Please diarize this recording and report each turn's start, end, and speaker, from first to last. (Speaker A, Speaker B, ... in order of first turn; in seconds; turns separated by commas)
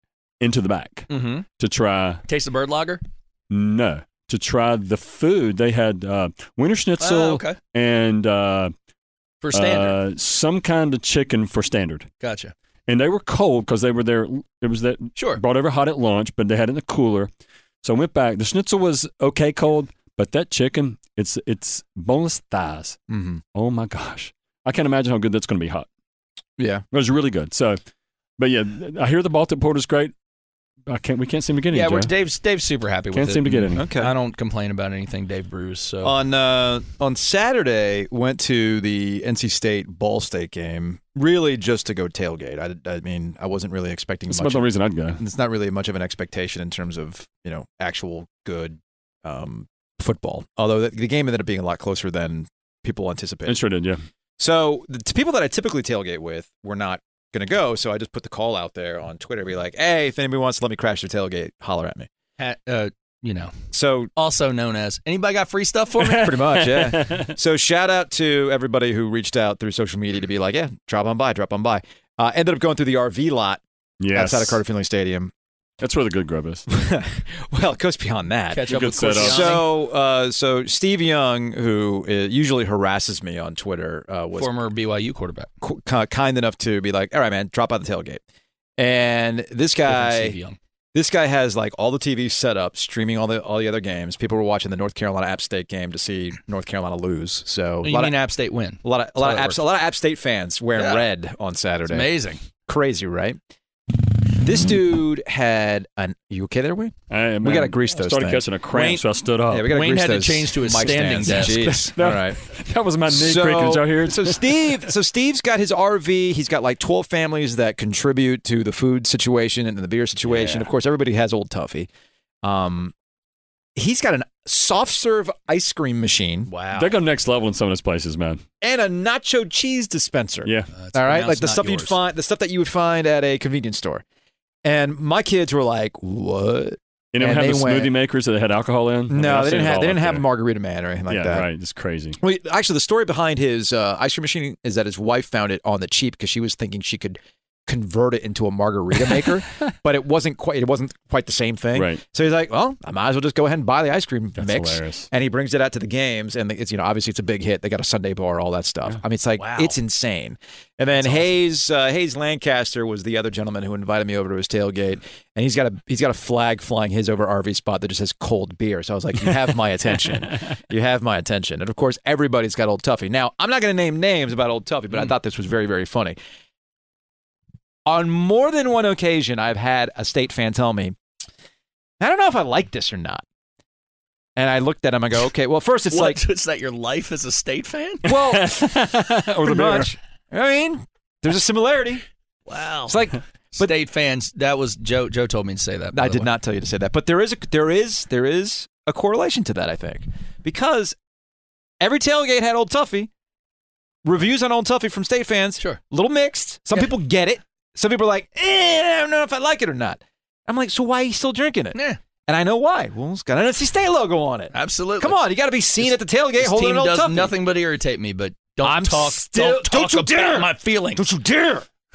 Speaker A: 0.4-2.2, Speaker B: 1.1-1.5, Speaker B: 2.3-3.0, Speaker A: 3.5-8.7, Speaker B: 7.0-7.6, Speaker B: 9.4-10.0, Speaker A: 9.5-12.1, Speaker B: 12.2-12.5, Speaker A: 12.9-17.3, Speaker B: 15.2-15.4, Speaker A: 17.8-23.0, Speaker C: 23.1-23.4, Speaker A: 23.5-25.9, Speaker C: 26.6-26.8, Speaker A: 26.9-27.8, Speaker A: 28.4-30.1, Speaker A: 30.9-32.1, Speaker B: 31.7-36.1, Speaker A: 33.1-33.9, Speaker C: 33.7-34.1, Speaker C: 36.0-53.6, Speaker A: 44.3-45.2, Speaker A: 53.5-54.0, Speaker C: 54.4-62.1, Speaker B: 62.4-63.5, Speaker C: 63.7-64.1, Speaker B: 64.2-66.4, Speaker A: 66.0-67.3, Speaker C: 66.0-73.6, Speaker A: 74.0-74.6, Speaker C: 74.1-75.3, Speaker A: 75.8-76.7, Speaker C: 76.7-84.5, Speaker B: 78.5-79.7, Speaker A: 78.7-79.6, Speaker B: 84.3-85.5, Speaker C: 85.6-88.2, Speaker C: 88.8-90.4, Speaker B: 89.8-90.6, Speaker C: 90.9-98.2, Speaker B: 97.8-99.6, Speaker C: 98.8-102.1, Speaker B: 100.8-101.1, Speaker B: 101.9-102.4, Speaker C: 102.7-103.4, Speaker C: 104.4-108.5, Speaker A: 107.1-109.7, Speaker B: 108.7-109.0, Speaker C: 109.5-112.4, Speaker B: 109.7-111.9, Speaker A: 111.0-114.9, Speaker C: 113.1-121.9, Speaker B: 120.2-120.7, Speaker C: 122.4-122.9, Speaker C: 123.8-126.5, Speaker B: 126.5-126.9, Speaker A: 126.7-128.4, Speaker C: 128.6-134.0, Speaker B: 130.7-132.0, Speaker C: 134.6-137.9, Speaker A: 137.1-140.3, Speaker C: 139.1-141.5, Speaker A: 141.1-142.2, Speaker C: 142.2-176.2, Speaker A: 151.7-152.0, Speaker A: 154.4-155.1, Speaker B: 159.4-159.8, Speaker B: 161.0-161.3, Speaker C: 177.9-181.0, Speaker C: 182.0-183.2, Speaker C: 184.4-186.2, Speaker B: 185.9-188.1, Speaker A: 188.1-190.0, Speaker C: 188.1-192.1, Speaker B: 192.5-193.0, Speaker C: 192.9-193.7, Speaker B: 193.6-196.3, Speaker C: 195.9-201.0, Speaker C: 201.8-203.1, Speaker C: 204.0-217.3, Speaker B: 211.7-212.0, Speaker B: 214.5-215.2, Speaker B: 215.8-221.1, Speaker C: 218.6-221.7